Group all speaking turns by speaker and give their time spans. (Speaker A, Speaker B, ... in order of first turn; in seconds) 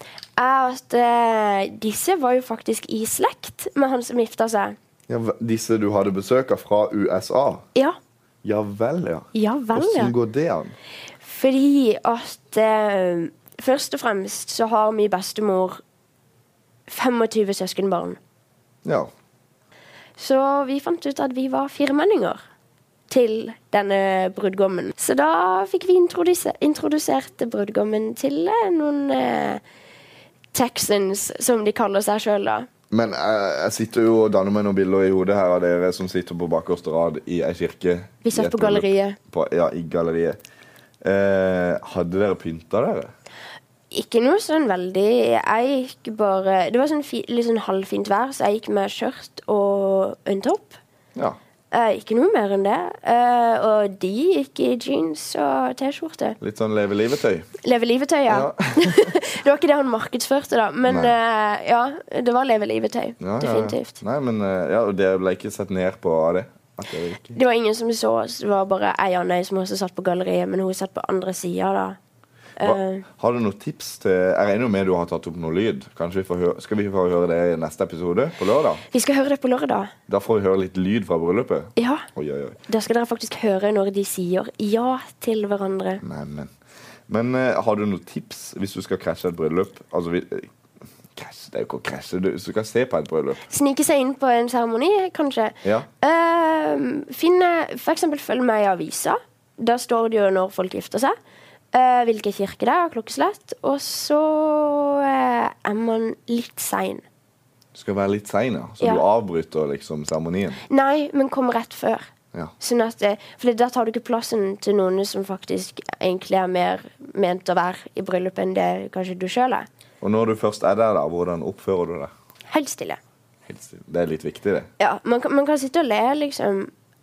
Speaker A: 0.4-4.7, 9.3-10.1, 11.2-15.8, 16.9-18.2, 20.2-22.4, 23.1-29.6, 30.5-32.7, 38.2-39.2, 43.9-50.8, 51.7-56.4, 57.6-64.0, 67.3-72.0, 72.6-73.0, 78.9-79.9, 81.8-82.0, 82.7-86.0, 93.5-101.1, 101.7-107.0, 110.7-112.1, 112.6-119.7, 122.5-123.0, 124.8-126.7
Speaker B: 5.1-7.7, 8.4-10.7, 18.8-19.1, 32.9-40.4, 41.0-43.1, 56.4-57.5, 58.3-59.1, 60.9-61.1, 63.2-67.4, 72.6-78.8, 80.1-82.6, 86.0-86.5, 87.1-90.5, 91.1-93.4, 107.7-110.6, 120.0-122.1, 123.5-124.7